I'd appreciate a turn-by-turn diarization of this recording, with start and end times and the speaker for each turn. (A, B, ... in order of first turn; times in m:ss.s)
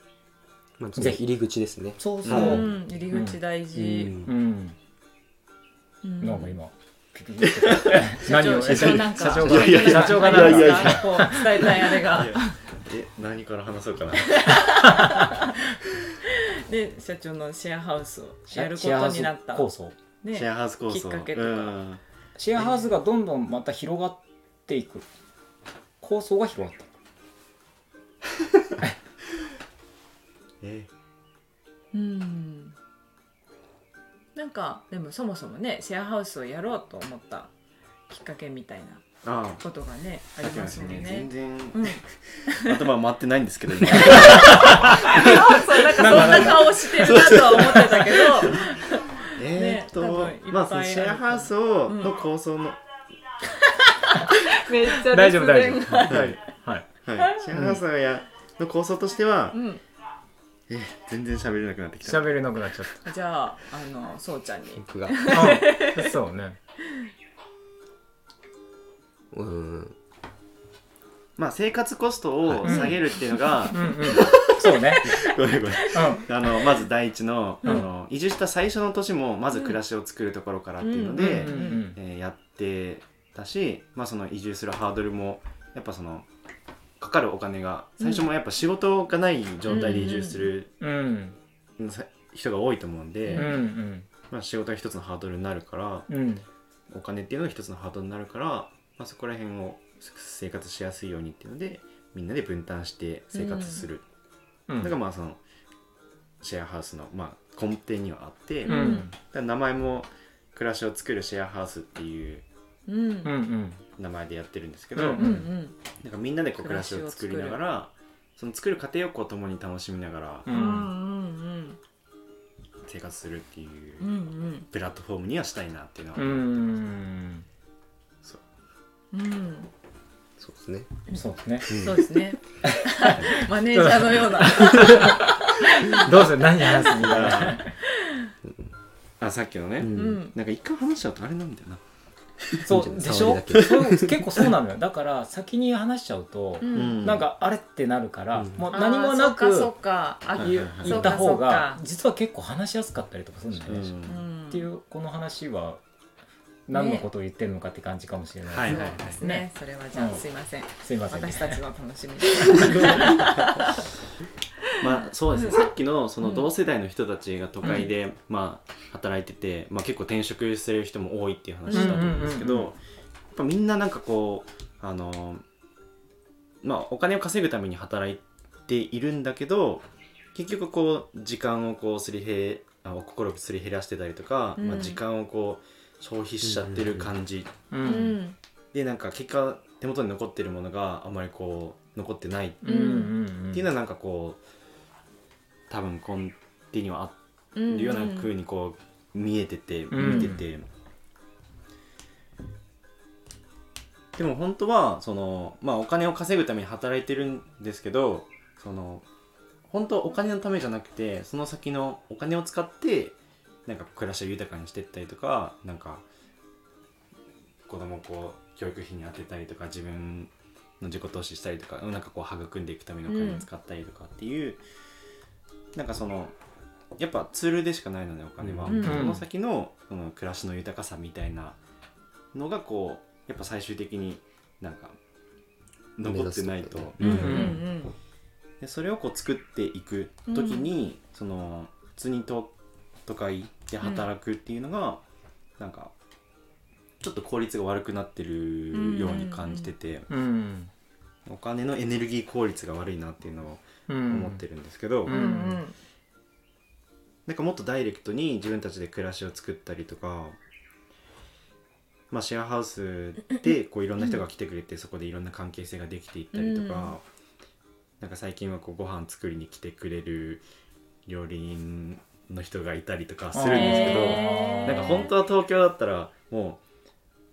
0:00.8-0:02.7 A
0:01.0-0:01.2 B
0:02.0-0:03.4 B
0:02.2-0:02.6 C
0:02.3-0:04.2 D
0:03.7-0:04.3 A
0:04.2-0:04.8 B
0:06.0-0:06.6 D
0:06.2-0:11.7 B
0:07.4-0:14.7 C
0:08.1-0:12.6 D
0:14.2-0:15.5 D
0:14.8-0:15.3 B
0:16.3-0:19.7 D
0:18.5-0:20.0 B
0:20.2-0:21.8 D
0:20.3-0:22.0 C
0:22.4-0:25.0 B
0:26.0-0:26.9 B
0:30.6-0:30.9 C
0:31.9-0:32.8 D
0:34.3-0:37.5 D
0:38.1-0:42.8 D
0:39.2-0:39.6 C
0:40.4-0:48.7 C
0:43.8-0:52.1 D
0:44.1-0:47.1 B
0:49.3-0:52.8 C
0:53.6-0:56.3 D
0:55.1-0:56.9 B
0:56.0-0:56.4 C
0:57.0-0:59.6 C
0:57.5-0:57.8 B
0:59.5-0:59.8 D
1:00.7-1:02.6 C
1:02.0-1:03.0 B
1:03.0-1:06.2 D
1:04.7-1:05.5 A
1:05.3-1:06.6 B
1:09.3-1:10.0 A
1:11.4-1:26.2 C
1:12.4-1:12.7 A
1:12.6-1:12.9 B
1:12.6-1:13.9 D
1:13.7-1:15.1 B
1:15.9-1:16.2 B
1:15.9-1:16.7 D
1:20.8-1:21.8 D
1:21.2-1:22.0 B
1:27.0-1:30.7 C
1:28.0-1:28.2 D
1:29.7-1:30.5 D
1:30.8-1:31.4 B
1:31.8-1:33.6 C
1:33.2-1:33.5 D
1:33.3-1:34.1 B
1:34.3-1:36.1 C
1:36.1-1:36.4 B
1:36.9-1:44.0 C
1:43.3-1:43.8 D
1:44.7-1:44.9 B
1:44.8-1:45.4 C
1:46.4-1:52.4 C
1:48.6-1:49.1 D
1:48.6-1:49.1 B
1:52.9-1:53.3 D
1:53.2-1:53.8 B
1:54.0-1:55.4 C
1:55.0-1:55.4 B
1:55.2-1:55.8 D
1:56.0-2:00.5 C
1:56.6-1:57.6 D
2:00.5-2:00.9 B
2:00.5-2:01.8 D
2:02.8-2:04.1 C
2:04.0-2:04.7 D
2:04.6-2:06.4 C
2:06.2-2:07.4 B
2:09.1-2:09.7 D
2:10.4-2:10.9 A
2:11.1-2:17.1 D
2:11.1-2:11.7 B
2:11.7-2:12.0 C
2:12.6-2:17.7 B
2:16.8-2:17.6 C
2:17.8-2:18.3 D
2:18.4-2:18.7 A
2:19.2-2:21.8 C
2:19.8-2:20.2 A
2:19.9-2:20.3 D
2:22.6-2:29.7 B
2:22.6-2:24.5 A
2:26.6-2:27.0 D
2:26.7-2:27.2 C
2:28.3-2:28.7 A
2:28.7-2:31.8 D
2:30.4-2:31.2 C
2:30.4-2:33.9 B
2:33.6-2:34.2 C
2:34.0-2:34.7 D
2:34.5-2:35.8 B
2:36.7-2:40.2 B
2:36.7-2:37.1 D
2:38.5-2:39.2 C
2:38.6-2:43.7 D
2:40.7-2:41.6 B
2:42.4-2:43.1 B
2:42.8-2:43.2 C
2:44.8-2:52.8 C
2:45.3-2:45.7 D
2:46.2-2:46.5 D
2:51.7-2:52.2 D
2:51.7-2:52.7 B
2:53.3-2:55.4 C
2:56.6-3:07.5 C
3:04.6-3:05.0 D
3:06.4-3:07.1 A
3:07.7-3:08.2 B
3:07.8-3:08.4 D
3:08.7-3:12.6 C
3:12.6-3:13.6 B
3:12.6-3:13.1 D
3:13.5-3:14.4 C
3:15.7-3:20.6 C
3:17.5-3:18.3 D
3:19.9-3:20.4 B
3:24.2-3:29.0 C
3:29.7-3:36.0 C
3:37.6-3:44.6 C
3:43.1-3:43.4 D
3:45.7-3:46.3 C
3:47.0-3:51.6 C
3:48.4-3:48.9 A
3:48.7-3:49.1 D
3:48.8-3:49.2 B
3:52.3-3:55.0 C
3:56.0-3:57.6 C
3:56.0-3:57.6 A
3:57.0-3:57.9 D
3:57.0-3:57.6 B
3:58.6-4:02.5 C
4:00.3-4:00.7 D
4:03.0-4:05.0 C
4:03.8-4:04.1 D
4:05.6-4:05.9 C
4:07.0-4:10.1 C
4:08.7-4:09.7 D
4:10.1-4:10.7 B
4:11.2-4:15.2 C
4:13.9-4:14.4 B
4:15.0-4:15.6 B
4:15.1-4:15.7 D
4:17.2-4:20.4 C
4:22.1-4:27.0 C
4:26.3-4:27.0 D
4:28.0-4:30.4 C
4:31.0-4:36.6 C
4:33.3-4:35.0 B
4:33.5-4:35.1 D